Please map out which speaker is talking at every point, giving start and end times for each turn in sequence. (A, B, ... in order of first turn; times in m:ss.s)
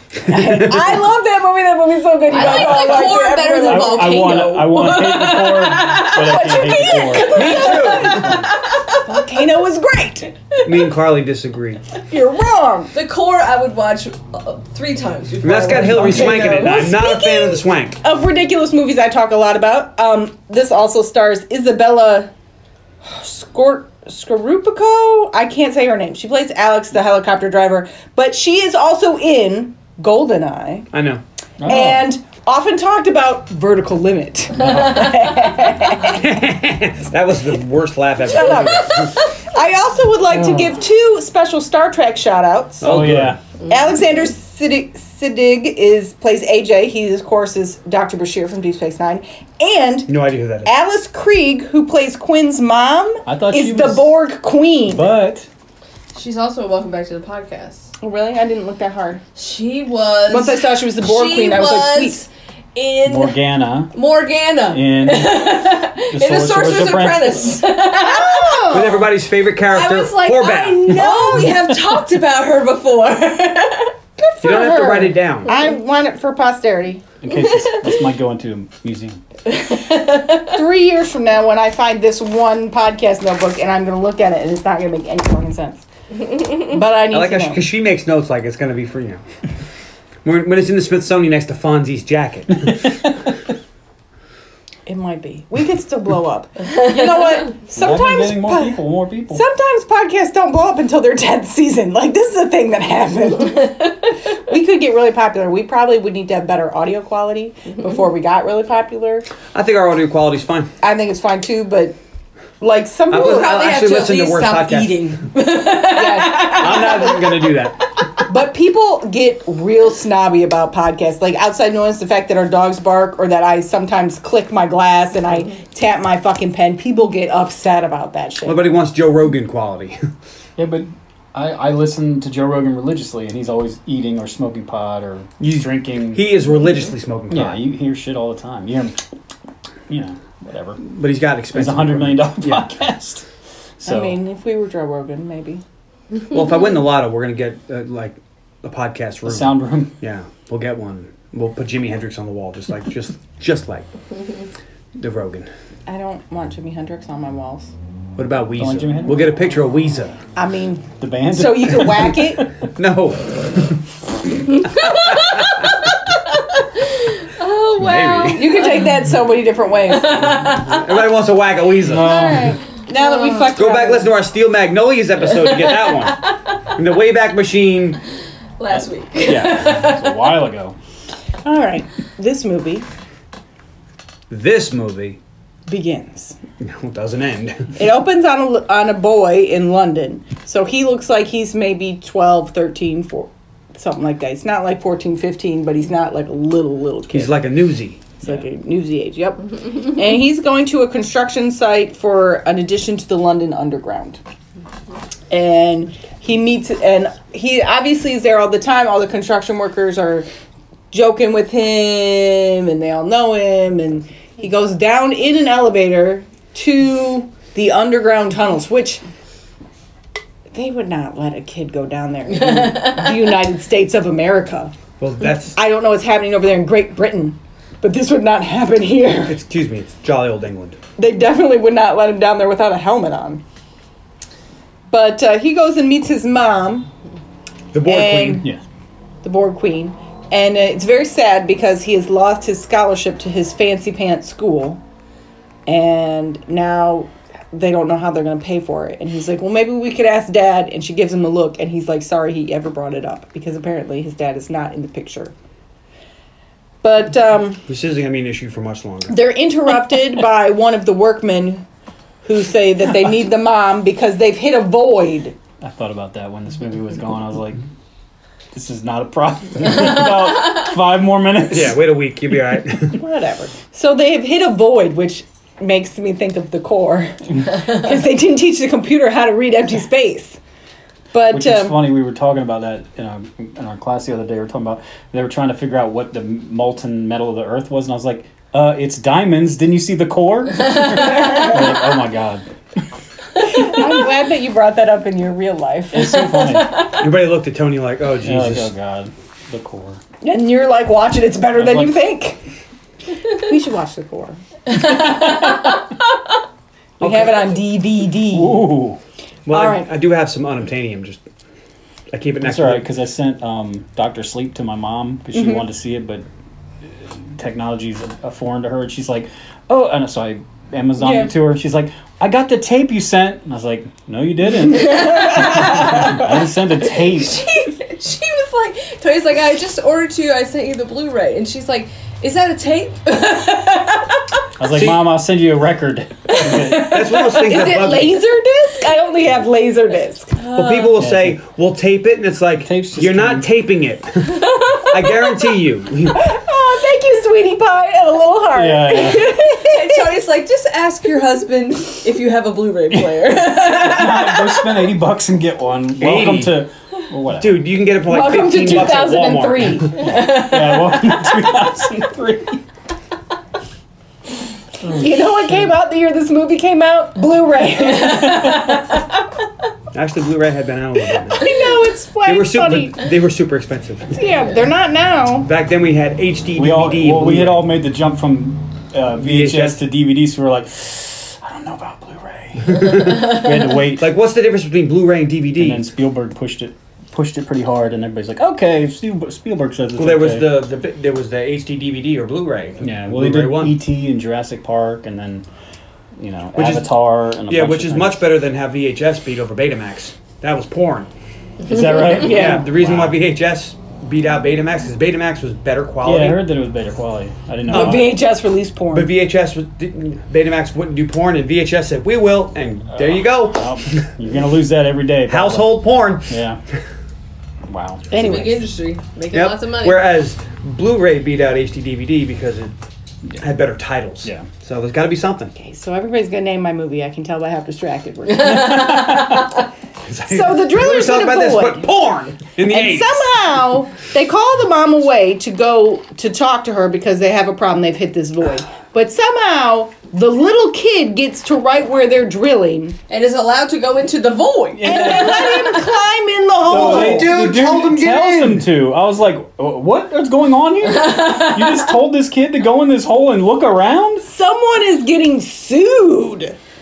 0:00.2-0:04.5 A
0:02.3-0:06.0 B
0:02.4-0:07.6 C
0:05.4-0:10.6 A
0:07.1-0:08.0 B
0:07.3-0:08.4 D
0:10.6-0:11.8 D
0:12.1-0:12.9 A
0:12.9-0:16.9 B
0:15.4-0:18.0 D
0:15.7-0:22.3 A
0:23.0-0:30.9 A
0:30.9-0:31.2 D
0:31.6-0:32.1 C
0:31.7-0:36.3 A
0:36.0-0:39.2 D
0:38.3-0:42.9 A
0:42.8-0:43.4 D
0:42.8-0:43.4 C
0:43.6-0:50.1 A
0:50.1-0:50.7 D
0:50.6-0:55.2 A
0:53.3-0:54.1 C
0:54.9-0:55.5 C
0:56.1-0:57.9 B
0:58.0-0:59.2 A
0:59.4-1:03.4 B
1:00.3-1:02.3 A
1:03.0-1:03.9 C
1:03.9-1:08.7 B
1:04.7-1:05.4 C
1:06.1-1:07.4 C
1:07.9-1:09.0 A
1:08.7-1:11.0 D
1:09.7-1:14.0 B
1:10.4-1:11.6 A
1:11.2-1:11.8 C
1:14.2-1:17.0 A
1:14.4-1:15.5 D
1:17.2-1:19.2 C
1:17.4-1:17.9 B
1:19.5-1:20.5 B
1:20.5-1:25.8 A
1:26.4-1:27.6 A
1:27.1-1:29.2 D
1:30.2-1:33.0 D
1:34.9-1:49.3 A
1:37.8-1:39.4 C
1:49.5-1:50.7 D
1:50.8-1:52.0 A
1:52.6-1:53.7 A
1:53.1-1:55.1 D
1:53.1-1:58.1 B
1:55.8-1:57.2 A
1:56.4-1:57.8 D
1:58.3-2:08.6 A
2:08.4-2:10.0 D
2:10.6-2:16.2 C
2:15.4-2:17.6 D
2:17.3-2:19.0 C
2:19.9-2:20.8 C
2:20.8-2:22.7 D
2:21.5-2:23.3 C
2:23.8-2:24.2 C
2:23.8-2:25.6 A
2:26.3-2:33.9 D
2:29.3-2:30.0 C
2:35.0-2:35.5 D
2:35.9-2:37.7 A
2:38.2-2:40.2 D
2:38.6-2:39.3 C
2:40.4-2:42.5 A
2:41.0-2:42.5 C
2:42.6-2:43.8 D
2:44.4-2:45.7 D
2:44.6-2:45.8 B
2:46.8-2:48.9 B
2:47.8-2:48.6 D
2:48.3-2:50.4 A
2:49.9-2:51.0 B
2:50.4-2:52.4 D
2:51.8-2:52.6 C
2:51.9-2:54.1 A
2:53.0-2:53.5 B
2:53.5-2:58.0 D
2:55.4-2:56.6 B
2:58.6-3:00.4 B
2:58.7-3:00.8 C
2:59.3-2:59.7 D
3:01.4-3:02.9 A
3:04.3-3:05.2 D
3:05.7-3:06.4 A
3:06.6-3:07.7 D
3:07.8-3:17.5 A
3:17.1-3:18.1 D
3:18.2-3:24.2 A
3:25.3-3:30.3 A
3:30.9-3:39.0 A
3:40.5-3:44.7 A
3:45.0-3:45.6 D
3:45.6-3:49.4 A
3:49.3-3:50.8 D
3:51.0-3:53.4 A
3:54.9-3:56.9 A
3:57.7-3:58.5 D
3:57.8-3:58.5 A
3:59.2-4:04.8 A
4:05.7-4:15.3 A
4:16.8-4:17.6 A
4:17.7-4:19.2 D
4:19.1-4:21.7 A
4:22.2-4:25.4 A
4:25.6-4:27.6 C
4:28.5-4:31.8 C
4:31.5-4:33.0 D
4:33.0-4:40.4 A
4:41.1-4:41.8 A
4:41.3-4:52.5 C
4:53.5-4:56.5 A
4:53.6-4:53.8 C
4:55.9-4:56.9 C
4:56.4-4:57.0 B
4:56.9-4:58.7 D
4:58.2-5:00.0 C
5:00.2-5:02.4 A
5:01.6-5:02.0 C
5:03.3-5:04.4 A
5:04.7-5:05.8 B
5:07.0-5:07.3 D
5:07.0-5:08.7 A
5:08.3-5:09.0 C
5:09.5-5:11.2 D
5:09.5-5:09.9 A
5:12.1-5:12.9 D
5:12.4-5:16.2 C
5:15.3-5:15.6 A
5:16.8-5:27.5 C
5:21.0-5:21.3 A
5:24.9-5:25.9 B
5:27.0-5:34.2 B
5:34.6-5:37.1 C
5:34.6-5:35.1 D
5:36.6-5:38.2 D
5:36.7-5:40.4 A
5:40.4-5:41.0 B
5:40.5-5:46.3 D
5:41.0-5:41.4 C
5:42.6-5:43.5 C
5:46.1-5:50.1 A
5:48.5-5:49.3 C
5:49.5-5:54.9 B
5:52.9-5:57.7 C
5:56.0-5:56.6 D
5:57.4-6:00.1 D
5:58.1-6:00.2 A
5:58.6-5:59.0 C
6:00.0-6:02.6 C
6:00.0-6:01.4 B
6:04.8-6:08.8 A
6:08.1-6:08.8 B
6:09.9-6:11.6 D
6:11.3-6:13.0 A
6:12.2-6:14.2 D
6:14.1-6:15.5 A
6:15.4-6:17.7 D
6:16.6-6:24.1 C
6:19.2-6:19.8 D
6:22.6-6:25.8 D
6:25.6-6:30.5 C
6:30.0-6:33.8 D
6:32.8-6:35.5 C
6:36.2-6:38.3 C
6:36.5-6:36.9 D
6:37.5-6:41.1 D
6:41.6-6:43.2 C
6:42.1-6:42.7 A
6:42.2-6:46.5 D
6:46.0-6:48.2 C
6:47.7-6:49.1 A
6:47.7-6:48.0 D
6:48.9-6:54.0 D
6:52.9-6:56.6 C
6:55.3-6:56.4 D
6:57.7-6:58.1 C
6:58.1-6:58.6 A
6:58.1-7:00.1 B
6:59.3-7:02.7 D
7:03.4-7:05.5 D
7:04.2-7:04.5 C
7:05.6-7:09.2 A
7:08.4-7:09.6 C
7:08.5-7:09.5 B
7:10.0-7:13.3 D
7:10.3-7:11.9 A
7:12.6-7:23.0 A
7:23.1-7:25.9 B
7:24.8-7:25.7 C
7:24.8-7:27.4 A
7:26.7-7:34.3 C
7:26.7-7:28.7 D
7:34.2-7:36.6 A